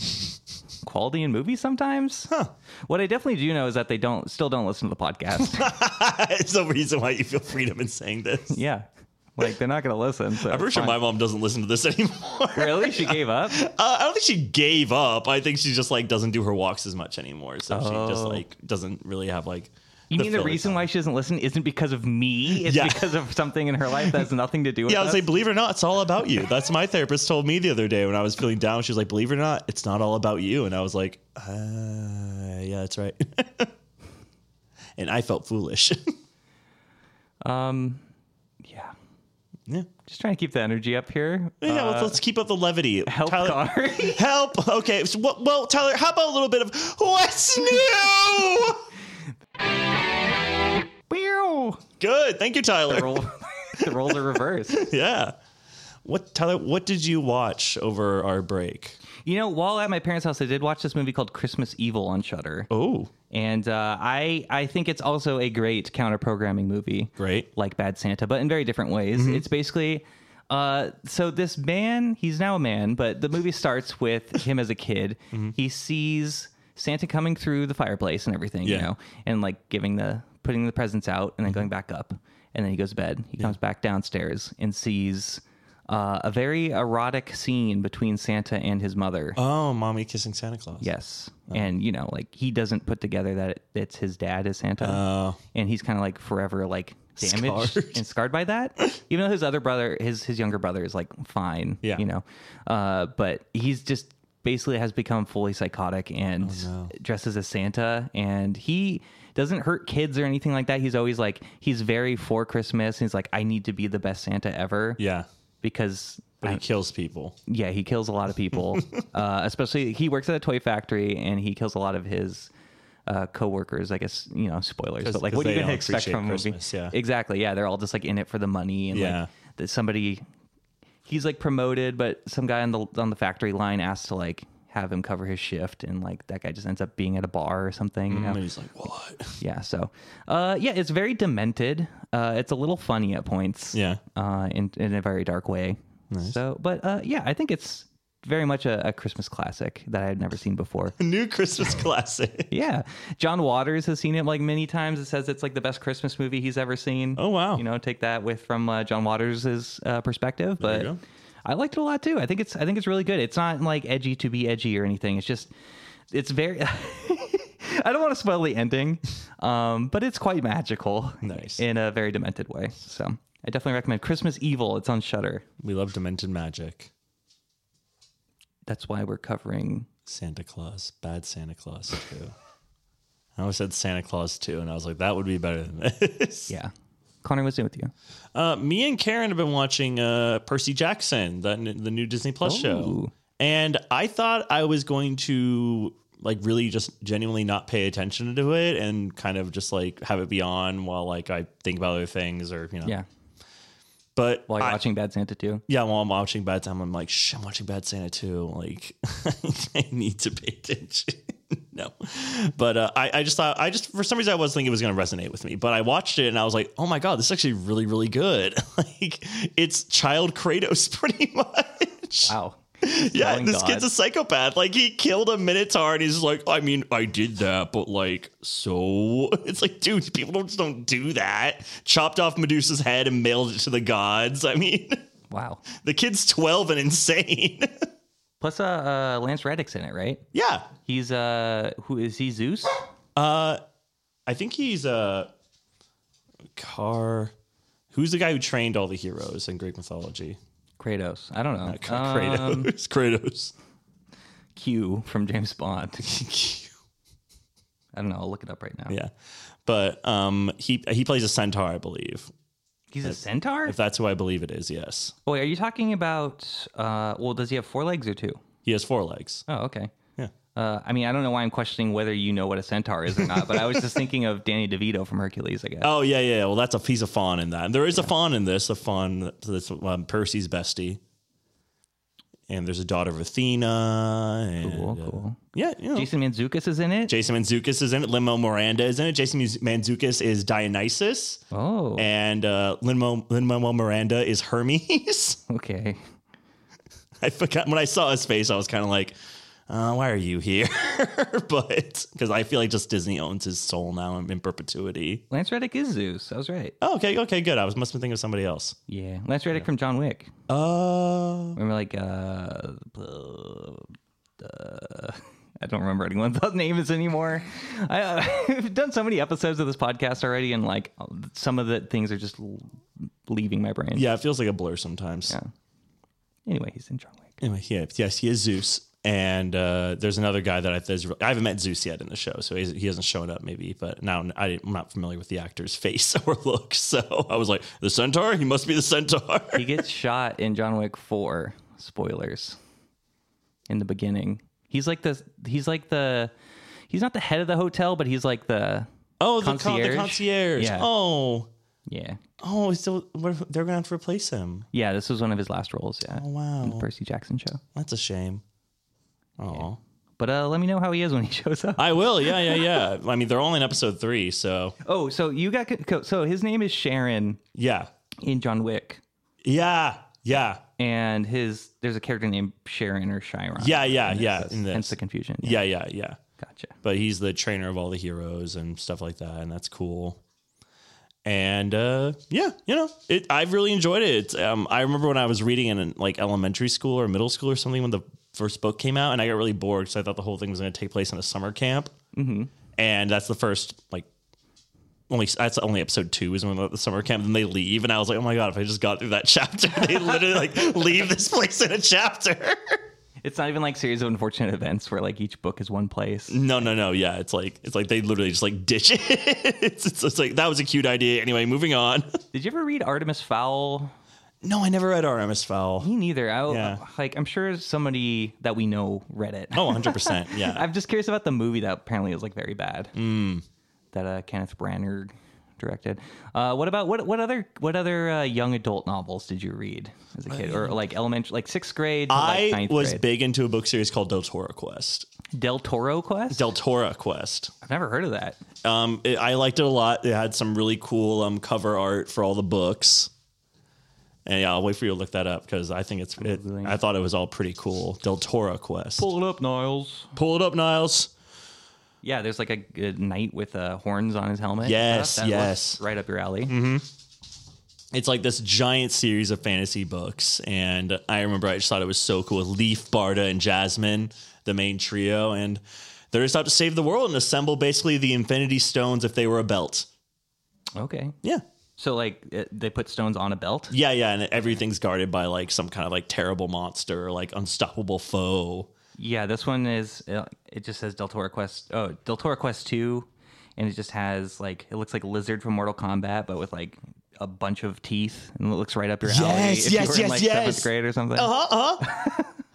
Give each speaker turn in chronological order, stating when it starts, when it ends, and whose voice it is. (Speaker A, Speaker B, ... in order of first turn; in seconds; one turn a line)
Speaker A: 0.8-2.3
Speaker A: 2.9-5.7
Speaker B: 5.4-8.6
Speaker A: 8.5-11.0
Speaker B: 10.4-20.9
Speaker A: 12.6-13.7
Speaker A: 17.7-18.4
Speaker A: 20.1-25.2
Speaker B: 22.5-23.2
Speaker B: 24.0-24.3
Speaker B: 24.9-33.7
Speaker B: 35.0-36.1
Speaker A: 37.5-38.0
Speaker A: 38.6-38.9
Speaker A: 40.0-42.2
Speaker B: 41.6-48.9
Speaker A: 43.1-44.2
Speaker A: 51.1-51.8
Speaker B: 52.0-53.2
Speaker A: 52.9-54.9
Speaker B: 53.8-55.3
Speaker B: 56.0-59.0
Speaker A: 59.2-62.7
Speaker B: 62.7-63.1
Speaker A: 63.3-89.4
Speaker B: 67.2-67.5
Speaker B: 69.1-69.5
Speaker B: 78.6-78.9
Speaker B: 89.4-90.9
Speaker A: 90.8-95.0
Speaker B: 94.8-95.4
Speaker A: 95.5-115.0
Speaker B: 97.2-98.0
Speaker B: 106.4-106.9
Speaker B: 115.0-115.3
Speaker A: 115.6-116.6
Speaker B: 116.4-117.4
Speaker A: 117.5-122.5
Speaker B: 118.5-119.0
Speaker A: 123.1-130.2
Speaker B: 125.0-127.0
Speaker B: 128.9-129.3
Speaker A: 131.1-138.4
Speaker B: 138.1-139.4
Speaker A: 139.4-151.0
Speaker B: 143.7-144.0
Speaker B: 146.1-146.4
Speaker B: 151.0-152.5
Speaker A: 152.5-160.9
Speaker B: 157.2-157.6
Speaker B: 160.6-161.0
Speaker A: 161.5-165.5
Speaker A: 166.1-175.4
Speaker B: 171.2-171.6
Speaker B: 175.6-176.9
Speaker A: 178.7-179.9
Speaker B: 180.1-182.3
Speaker B: 183.4-186.5
Speaker A: 187.2-187.9
Speaker B: 188.3-202.9
Speaker A: 192.4-193.1
Speaker B: 204.2-204.8
Speaker A: 204.5-205.6
Speaker B: 205.7-235.0
Speaker A: 222.3-223.9
Speaker A: 235.3-235.7
Speaker B: 235.7-237.9
Speaker A: 238.4-240.2
Speaker B: 240.3-240.7
Speaker A: 240.8-242.8
Speaker B: 243.2-243.6
Speaker B: 244.3-245.3
Speaker B: 246.5-247.3
Speaker B: 247.9-250.4
Speaker A: 250.8-252.7
Speaker B: 251.6-253.5
Speaker A: 254.6-256.1
Speaker B: 256.0-256.7
Speaker A: 257.9-259.0
Speaker B: 259.6-262.3
Speaker A: 262.9-263.8
Speaker B: 263.0-265.1
Speaker A: 265.3-268.4
Speaker B: 268.6-269.4
Speaker A: 269.5-269.9
Speaker A: 270.5-275.9
Speaker B: 273.1-274.0
Speaker B: 275.8-281.0
Speaker B: 282.5-286.1
Speaker A: 284.6-285.4
Speaker A: 285.9-287.1
Speaker B: 287.1-291.4
Speaker A: 291.5-292.1
Speaker B: 292.0-295.4
Speaker A: 295.5-296.0
Speaker B: 297.2-299.1
Speaker B: 299.7-305.2
Speaker A: 305.3-306.8
Speaker B: 306.8-308.8
Speaker A: 308.9-310.3
Speaker B: 310.5-311.6
Speaker A: 311.6-324.1
Speaker B: 323.9-325.4
Speaker A: 326.5-327.4
Speaker B: 327.4-339.8
Speaker A: 339.5-342.6
Speaker A: 343.7-346.3
Speaker A: 346.9-348.9
Speaker B: 349.2-351.5
Speaker A: 349.4-350.9
Speaker A: 351.9-352.2
Speaker B: 352.4-354.7
Speaker A: 354.7-357.6
Speaker B: 356.1-356.9
Speaker B: 357.8-358.4
Speaker B: 359.4-359.8
Speaker A: 360.2-362.8
Speaker B: 361.8-364.8
Speaker A: 364.8-367.4
Speaker B: 367.6-367.9
Speaker A: 368.2-369.0
Speaker B: 369.4-370.6
Speaker A: 370.8-375.6
Speaker B: 373.6-376.2
Speaker A: 376.4-376.8
Speaker B: 376.8-380.2
Speaker B: 381.2-391.9
Speaker A: 392.1-392.5
Speaker B: 392.8-394.1
Speaker B: 395.1-402.8
Speaker A: 399.8-400.9
Speaker A: 403.2-406.4
Speaker B: 406.3-412.1
Speaker A: 412.3-413.9
Speaker B: 414.4-415.9
Speaker A: 415.8-422.9
Speaker B: 416.5-416.8
Speaker B: 419.5-420.7
Speaker B: 422.9-423.4
Speaker A: 423.9-433.0
Speaker B: 430.3-430.8
Speaker B: 432.1-435.1
Speaker A: 435.4-436.5
Speaker B: 436.3-437.5
Speaker A: 437.6-438.4
Speaker B: 438.6-443.1
Speaker B: 444.3-449.1
Speaker A: 446.2-446.8
Speaker A: 449.0-450.1
Speaker B: 450.1-451.1
Speaker A: 452.0-456.6
Speaker B: 454.6-455.8
Speaker B: 456.5-456.9
Speaker B: 457.9-469.9
Speaker A: 470.8-471.2
Speaker A: 471.8-473.8
Speaker B: 473.7-478.7
Speaker A: 479.0-492.4
Speaker B: 489.1-491.9